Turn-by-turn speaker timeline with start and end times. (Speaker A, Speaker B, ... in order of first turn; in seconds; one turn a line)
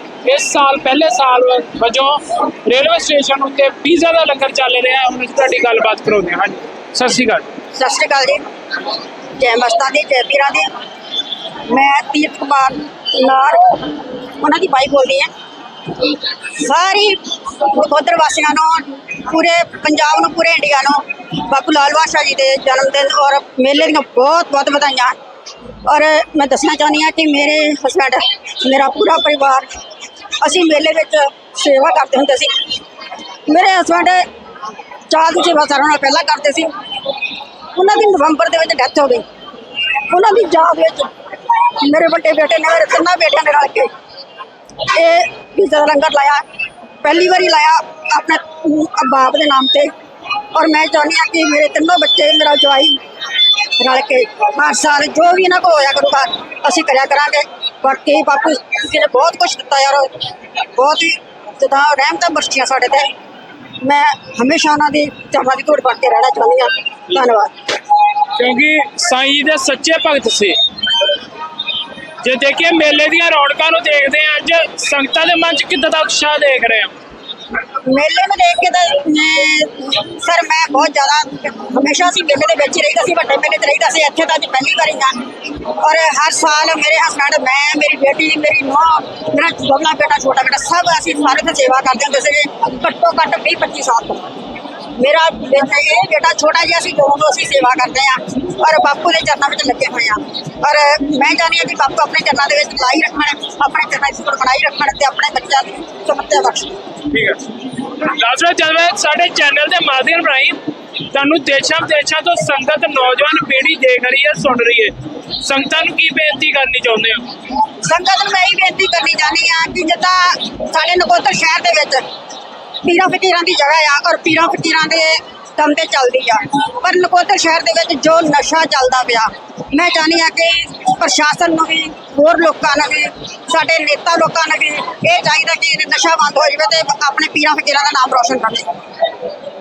Speaker A: 0.2-7.5
Speaker B: 7.7-8.5
Speaker B: 9.4-10.7
Speaker B: 11.6-15.3
Speaker B: 16.3-25.2
Speaker B: 25.9-29.8
Speaker B: 30.4-32.7
Speaker B: 33.5-34.3
Speaker B: 35.1-36.7
Speaker B: 37.7-39.2
Speaker B: 40.0-43.9
Speaker B: 44.8-46.5
Speaker B: 47.0-49.9
Speaker B: 50.5-53.0
Speaker B: 53.6-63.1
Speaker B: 63.8-67.5
Speaker A: 68.3-70.6
Speaker A: 72.2-76.9
Speaker B: 77.8-94.4
Speaker B: 95.0-106.8
Speaker A: 107.1-117.3
Speaker B: 117.8-122.0
Speaker B: 122.8-138.7